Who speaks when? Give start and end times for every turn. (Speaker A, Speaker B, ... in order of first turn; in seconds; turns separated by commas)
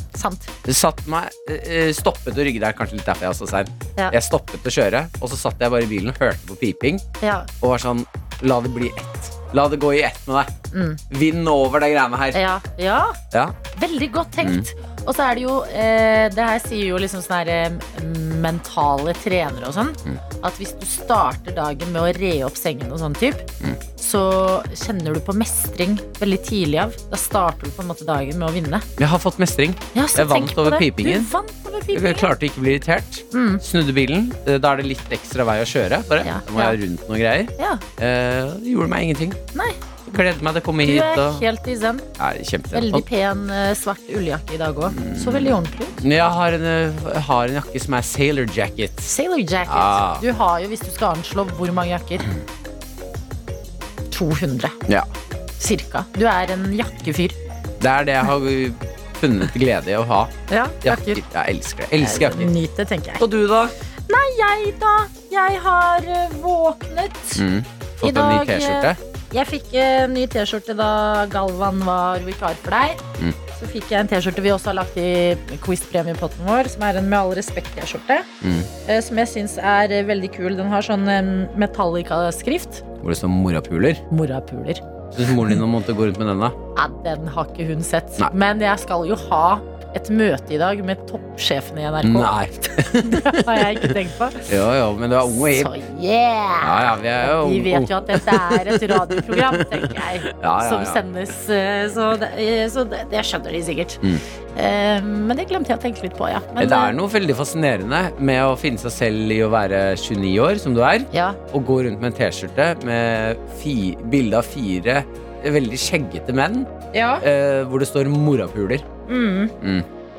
Speaker A: 0.1-0.5, Speaker B: 0.7-7.0, Speaker A: 7.2-7.5, Speaker B: 7.6-10.5, Speaker A: 10.7-11.0, Speaker B: 11.1-12.4, Speaker A: 12.3-13.2, Speaker A: 13.7-23.5, Speaker B: 14.4-14.7, Speaker A: 24.0-28.9, Speaker B: 29.0-31.3, Speaker A: 29.9-32.3, Speaker B: 31.9-39.4, Speaker A: 33.3-33.6, Speaker A: 36.2-36.8, Speaker A: 37.6-37.8, Speaker B: 40.0-41.5, Speaker A: 40.9-42.1, Speaker B: 42.2-43.1, Speaker A: 42.7-46.0, Speaker B: 44.9-50.2, Speaker A: 49.1-52.3, Speaker A: 54.1-54.8, Speaker A: 55.6-57.4, Speaker B: 57.8-60.3, Speaker A: 60.5-61.2, Speaker B: 60.8-62.5, Speaker A: 62.0-63.2, Speaker B: 63.2-63.8, Speaker A: 64.1-67.4, Speaker B: 67.4-69.0, Speaker A: 68.0-73.0, Speaker A: 73.5-78.3, Speaker B: 78.4-78.7, Speaker A: 78.8-82.8, Speaker B: 83.0-84.0, Speaker A: 84.1-84.8, Speaker B: 85.1-86.6, Speaker A: 86.8-94.5, Speaker B: 92.0-93.9, Speaker B: 94.5-95.7, Speaker A: 95.3-106.9, Speaker B: 96.6-101.0, Speaker B: 106.6-118.9, Speaker A: 111.1-111.4, Speaker A: 116.9-117.2, Speaker A: 119.1-119.5, Speaker B: 119.6-119.9